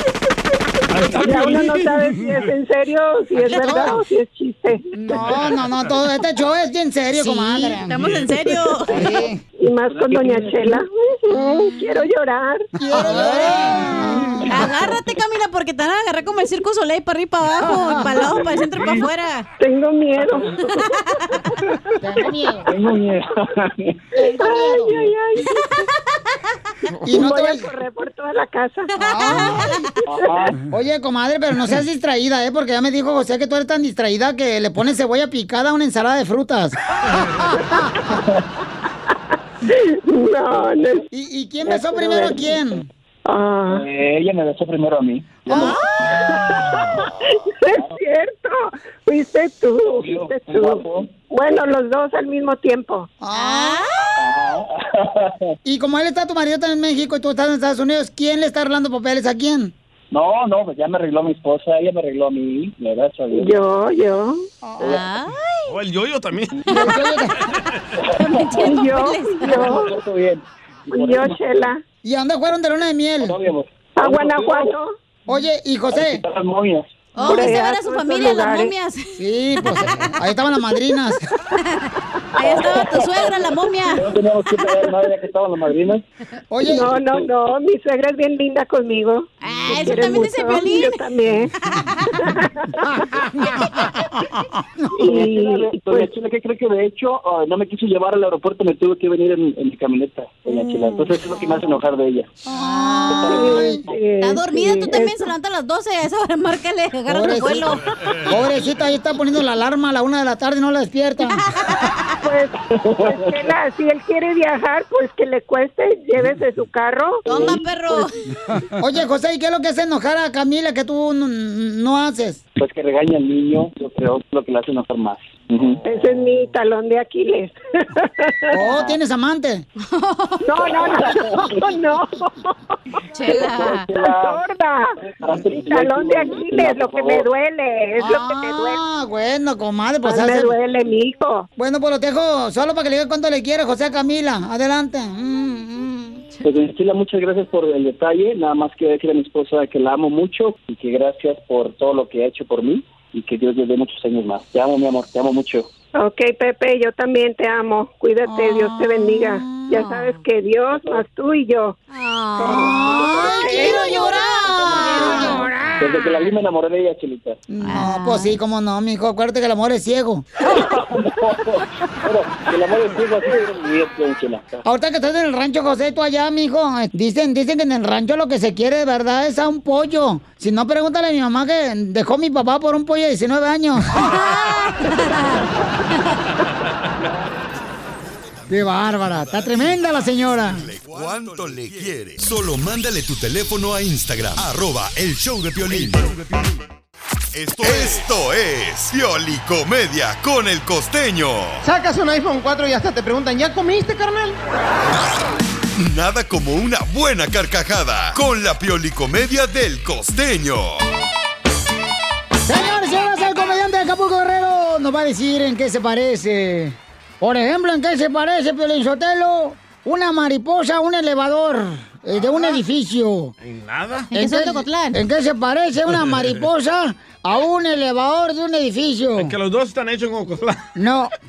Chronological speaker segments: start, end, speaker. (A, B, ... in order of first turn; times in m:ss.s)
0:00.9-0:02.5 A
0:01.1-0:05.3 B
0:03.5-0:03.9 C
0:03.5-0:04.0 D
0:05.0-0:08.2 C
0:07.2-0:09.1 D
0:08.9-0:09.4 C
0:08.9-0:09.2 E
0:08.9-0:13.3 B
0:09.8-0:10.8 E
0:12.8-0:14.7 C
0:13.0-0:13.9 D
0:13.9-0:14.3 B
0:14.2-0:15.0 E
0:14.5-0:19.5 D
0:17.6-0:18.2 C
0:18.1-0:19.1 E
0:19.6-0:21.0 B
0:20.2-0:20.6 E
0:20.8-0:21.4 D
0:21.7-0:22.3 B
0:22.0-0:22.7 C
0:22.6-0:24.0 E
0:24.2-0:25.1 C
0:24.2-0:25.9 B
0:27.0-0:29.4 B
0:27.0-0:27.7 C
0:29.0-0:29.9 D
0:29.0-0:29.8 C
0:30.1-0:30.6 E
0:30.1-0:30.5 B
0:30.7-0:36.8 C
0:38.1-0:38.4 E
0:39.7-0:41.0 B
0:41.1-0:42.9 C
0:41.6-0:42.6 B
0:43.3-0:43.8 B
0:43.7-0:47.0 E
0:45.5-0:45.8 D
0:45.5-0:53.1 B
0:47.7-0:48.0 E
0:49.9-0:51.1 E
0:53.2-0:53.9 C
0:53.3-0:54.2 D
0:54.2-0:55.5 E
0:55.6-0:59.7 C
1:00.1-1:03.6 E
1:03.3-1:04.4 B
1:04.6-1:05.0 C
1:04.8-1:05.7 D
1:05.7-1:06.8 A
1:06.7-1:07.4 C
1:06.7-1:07.0 D
1:07.9-1:08.8 E
1:08.2-1:09.8 D
1:08.5-1:10.0 B
1:09.4-1:11.6 E
1:10.9-1:11.8 B
1:12.0-1:13.4 C
1:13.2-1:14.8 E
1:14.0-1:14.9 B
1:15.3-1:16.2 C
1:15.9-1:17.0 E
1:17.2-1:20.1 D
1:17.2-1:18.7 B
1:19.2-1:21.3 C
1:22.4-1:24.1 D
1:22.4-1:26.0 E
1:26.5-1:26.9 C
1:26.6-1:31.5 B
1:26.8-1:27.3 E
1:29.4-1:31.0 D
1:31.7-1:32.1 D
1:32.2-1:33.0 B
1:33.1-1:33.8 C
1:35.0-1:36.1 B
1:35.0-1:42.3 E
1:42.5-1:43.8 C
1:42.6-1:43.0 D
1:43.1-1:44.0 E
1:43.2-1:45.3 B
1:44.2-1:47.8 D
1:47.1-1:51.4 C
1:51.5-1:51.9 D
1:52.2-1:58.1 B
1:52.7-1:53.5 E
1:57.3-1:58.1 D
1:58.6-2:02.4 C
2:02.6-2:06.1 E
2:05.8-2:08.9 B
2:08.5-2:09.7 C
2:09.8-2:10.4 D
2:10.4-2:12.6 B
2:10.6-2:11.8 E
2:13.1-2:13.9 D
2:13.2-2:14.4 E
2:13.3-2:15.0 B
2:15.0-2:17.3 E
2:15.5-2:18.8 B
2:18.0-2:20.6 C
2:20.0-2:21.5 B
2:21.6-2:26.3 C
2:26.4-2:35.7 E
2:36.0-2:41.8 B
2:38.3-2:39.8 C
2:39.8-2:40.1 D
2:40.7-2:41.0 E
2:41.9-2:45.5 D
2:42.4-2:44.2 B
2:42.4-2:45.9 C
2:44.4-2:47.4 E
2:47.5-2:50.2 C
2:47.6-2:48.4 D
2:50.4-2:54.6 E
2:54.6-3:04.0 C
3:04.0-3:05.4 D
3:08.5-3:10.7 C
3:10.4-3:16.2 F
3:17.3-3:21.6 F
3:21.6-3:24.4 G
3:25.8-3:30.8 F
3:32.4-3:43.3 C
3:42.2-3:42.6 A
3:43.4-3:44.1 A
3:44.1-3:45.0 D
3:44.1-3:49.4 C
3:49.2-3:50.7 A
3:50.8-3:51.1 C